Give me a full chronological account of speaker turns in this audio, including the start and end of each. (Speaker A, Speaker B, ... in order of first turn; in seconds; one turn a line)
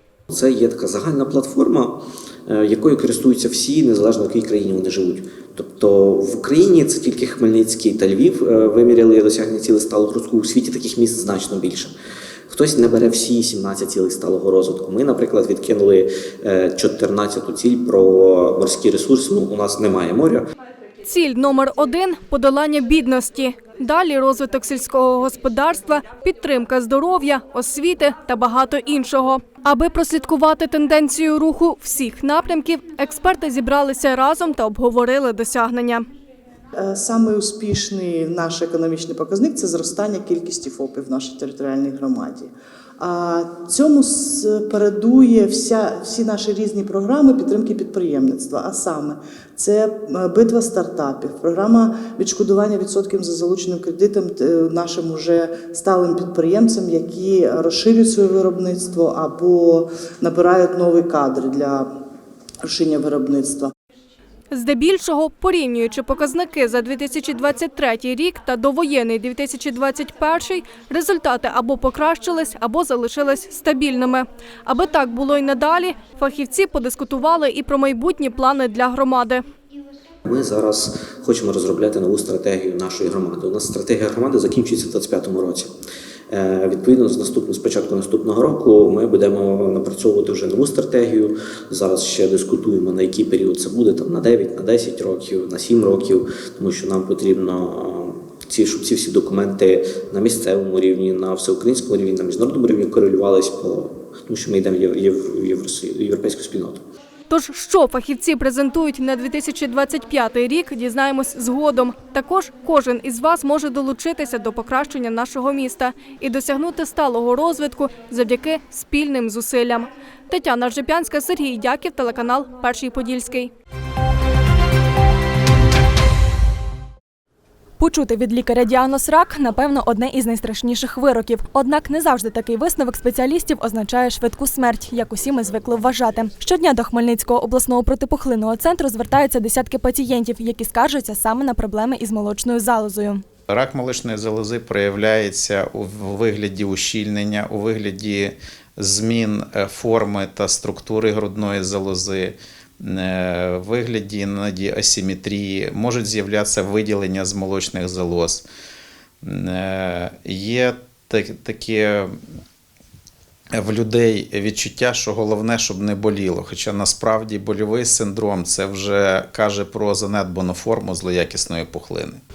Speaker A: 0.3-11.9
Speaker A: 12.5-20.4
Speaker B: 21.0-36.0
Speaker C: 36.8-61.9
Speaker C: 62.6-63.7
Speaker B: 64.5-79.4
Speaker A: 80.2-85.7
Speaker A: 86.3-106.8
Speaker B: 107.3-123.5
Speaker D: 127.8-143.2
Speaker E: 143.5-158.4
Speaker E: 159.2-162.2
Speaker E: 163.5-172.2